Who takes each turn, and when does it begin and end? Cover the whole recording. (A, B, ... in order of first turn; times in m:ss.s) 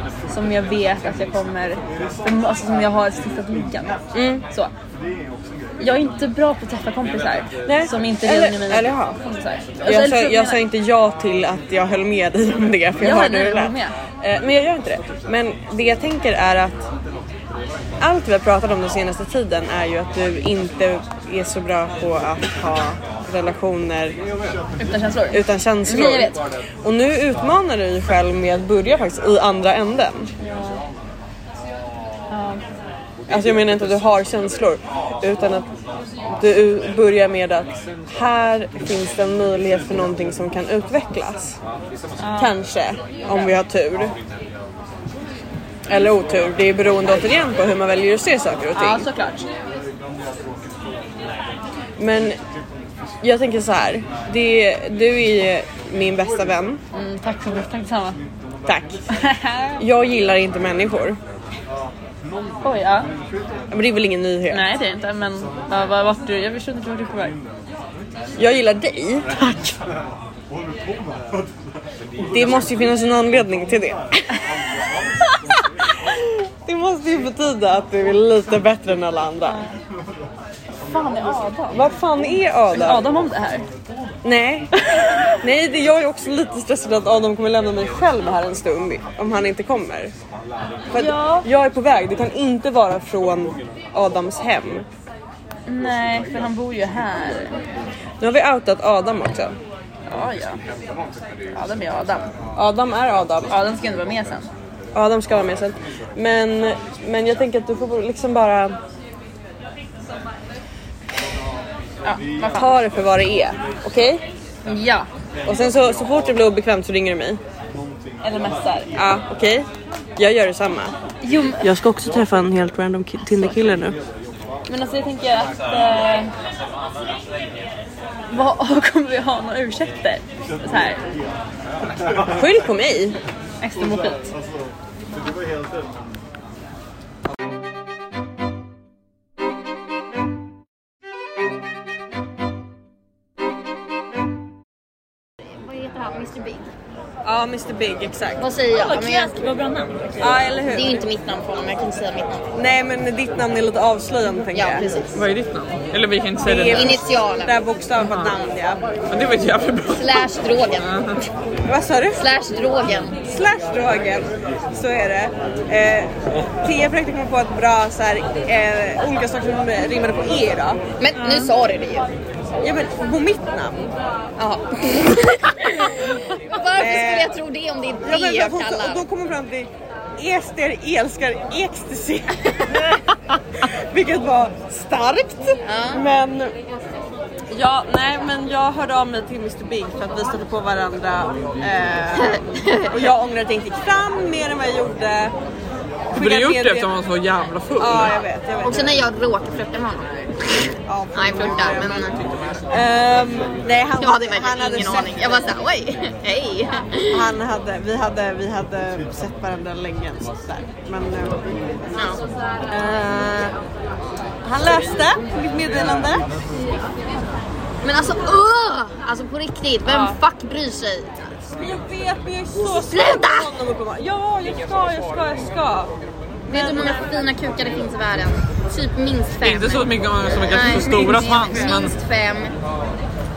0:00.3-0:04.7 A
0:04.1-0:04.4 B
0:05.8-0:10.6 A
0:07.7-0:09.2 B
0:09.8-0:16.8 B
0:13.0-0:13.9 A
0:18.0-0:24.2 B
0:24.8-0:26.4 A
0:25.3-0:30.3 B
0:30.4-0:30.8 A
0:32.3-0:32.6 A
0:33.3-0:35.7 B
0:36.3-0:41.6 B
0:42.2-0:42.5 A
0:42.4-0:44.2 B
0:43.2-0:43.5 A
0:45.9-0:49.1 B
0:48.7-0:49.5 A
0:52.0-0:52.4 B
0:53.2-0:56.8 B
0:56.9-0:58.2 A
0:58.6-0:59.0 B
0:59.1-0:59.8 A
0:59.8-1:01.2 B
1:02.6-1:03.1 A
1:03.7-1:04.6 B
1:04.5-1:07.4 A
1:08.4-1:09.8 B
1:12.3-1:14.4 B
1:16.1-1:19.6 B
1:19.5-1:19.7 A
1:20.8-1:23.6 A
1:21.7-1:23.0 B
1:24.2-1:24.7 B
1:25.4-1:30.1 B
1:30.9-1:34.9 B
1:31.0-1:31.5 A
1:35.6-1:37.6 A
1:38.2-1:39.6 B
1:40.1-1:40.6 A
1:41.5-1:42.3 A
1:42.6-1:43.5 B
1:43.5-1:44.5 A
1:44.9-1:48.8 B
1:52.0-1:52.7 A
1:52.6-1:54.2 B
1:54.6-1:55.1 A
1:55.4-1:57.4 B
1:58.2-1:58.9 A
1:59.0-2:01.0 B
2:01.2-2:01.7 A
2:01.6-2:04.0 B
2:04.7-2:06.3 A
2:08.3-2:11.0 A
2:12.3-2:13.2 B
2:13.6-2:14.3 A
2:25.7-2:26.7 C
2:27.2-2:28.4 B
2:28.4-2:29.4 C
2:28.4-2:30.4 A
2:30.2-2:31.0 B
2:30.7-2:32.4 C
2:32.5-2:34.9 B
2:34.5-2:35.2 C
2:35.1-2:37.0 D
2:36.4-2:38.9 B
2:36.7-2:37.5 C
2:38.0-2:38.3 D
2:39.1-2:41.2 D
2:39.9-2:41.0 C
2:41.6-2:42.2 B
2:42.1-2:43.2 C
2:43.2-2:46.1 B
2:46.6-2:51.4 B
2:51.0-2:52.1 C
2:52.6-2:53.9 B
2:54.4-2:59.0 C
2:56.8-2:57.4 B
2:58.0-3:06.5 B
3:05.6-3:06.0 C
3:07.5-3:12.4 B
3:12.3-3:13.0 C
3:12.9-3:15.3 B
3:16.1-3:16.9 B
3:16.1-3:18.1 D
3:17.8-3:19.0 B
3:18.6-3:22.1 C
3:20.8-3:25.5 B
3:24.0-3:27.3 C
3:27.1-3:32.0 B
3:31.9-3:32.2 C
3:32.6-3:33.5 B
3:34.4-3:36.2 B
3:37.8-3:41.2 C
3:39.9-3:40.2 B
3:41.6-3:45.9 B
3:42.8-3:43.5 C
3:46.5-3:47.2 B
3:46.5-3:52.5 C
3:49.4-3:51.9 D